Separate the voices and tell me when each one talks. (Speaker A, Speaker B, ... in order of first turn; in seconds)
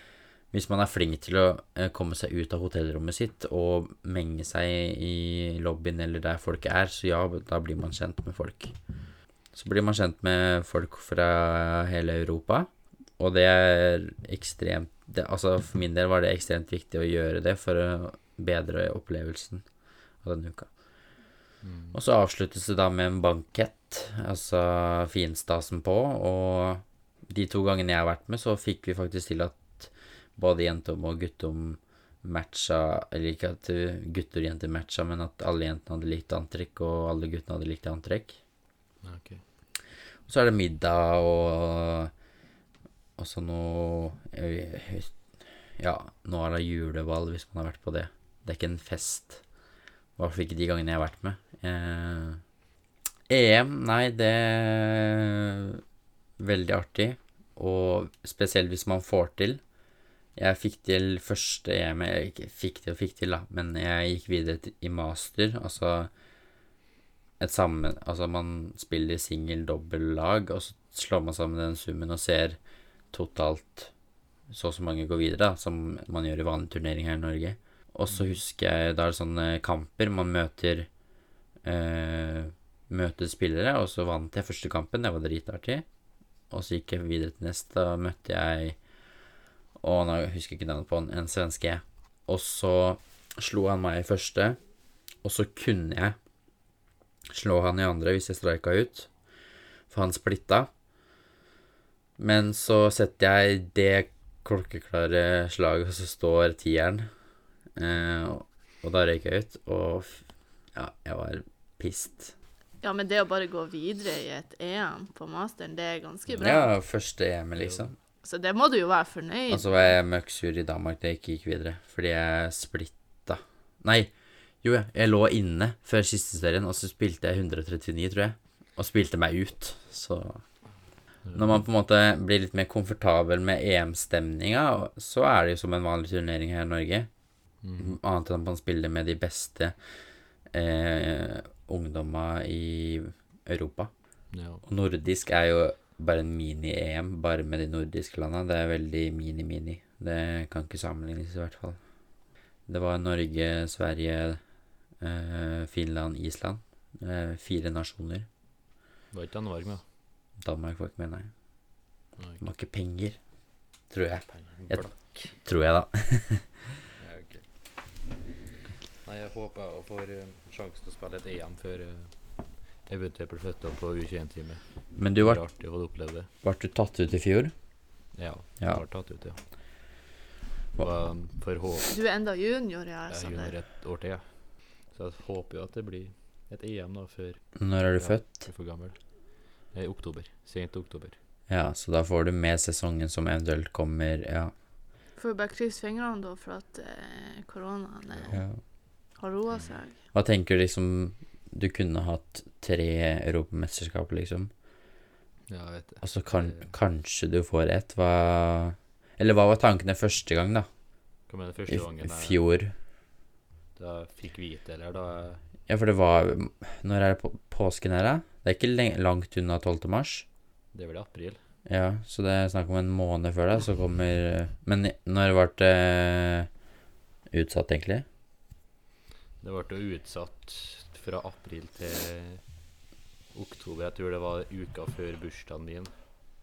Speaker A: 0.5-8.8, 9.5-19.6, 20.2-20.7, 21.9-38.4, 40.3-42.1, 43.2-45.2, 45.8-49.4, 50.2-52.4, 53.3-55.8, 56.4-59.6, 60.4-66.1, 67.4-72.6, 73.1-73.9, 74.5-80.9, 81.6-85.8, 86.5-88.8, 89.8-94.6, 95.2-96.2, 97.3-99.1, 99.9-100.7, 102.2-107.1, 107.8-112.3, 116.4-118.0, 119.5-130.4, 131.3-137.1, 137.8-139.8, 140.5-143.9, 144.7-151.8, 152.7-154.4, 155.0-158.3, 160.4-161.3, 162.4-163.2, 163.9-166.7, 175.0-175.4, 176.4-177.5, 187.6-188.5, 191.5-194.5, 198.3-198.6, 200.1-204.5, 206.0-210.7, 211.7-212.7, 215.7-220.3, 221.7-226.5, 227.3-228.1
Speaker B: 21.6-22.0, 39.0-39.4, 78.1-78.4, 117.6-117.9, 131.3-131.5, 137.6-138.0, 144.3-144.6, 159.1-159.8, 164.3-165.3, 167.0-167.5, 169.0-172.1, 172.9-176.3, 178.1-179.4, 180.8-181.9, 183.1-189.0, 189.6-191.2, 198.1-198.4, 205.5-206.7, 211.3-212.4, 213.8-215.4, 220.7-221.4, 229.4-232.4, 233.3-235.9
Speaker C: 112.8-116.7, 118.2-119.9, 181.9-183.5, 195.2-198.4, 199.2-200.0